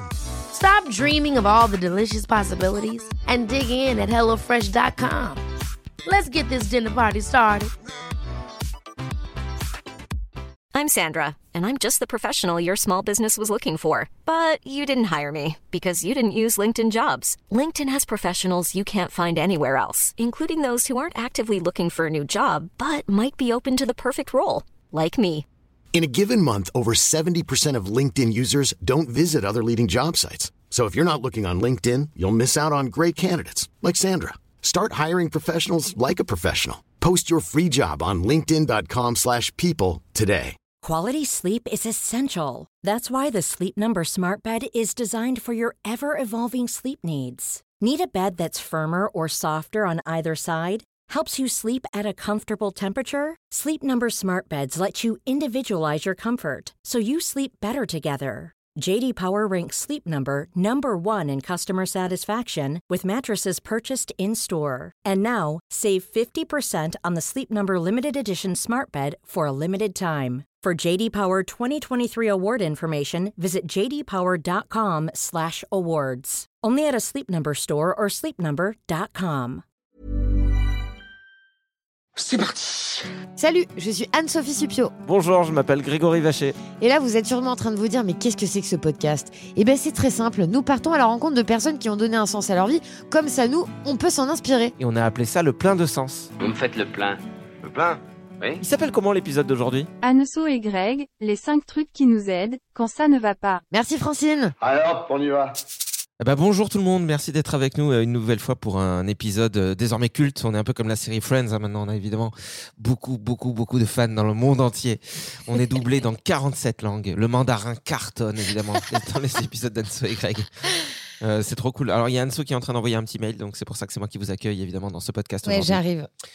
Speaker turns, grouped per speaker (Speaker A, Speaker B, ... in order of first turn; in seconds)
Speaker A: 0.5-5.4, 6.0-7.7
Speaker B: 10.7-25.4
Speaker C: 25.9-40.5
Speaker D: 40.8-79.6
Speaker E: 83.4-84.9, 86.8-94.7, 103.7-104.5, 125.4-126.1
Speaker F: 85.0-86.6, 94.8-96.3, 98.6-99.9, 106.2-120.6, 121.2-125.8
Speaker G: 96.4-98.6, 104.6-105.5
Speaker H: 100.0-103.6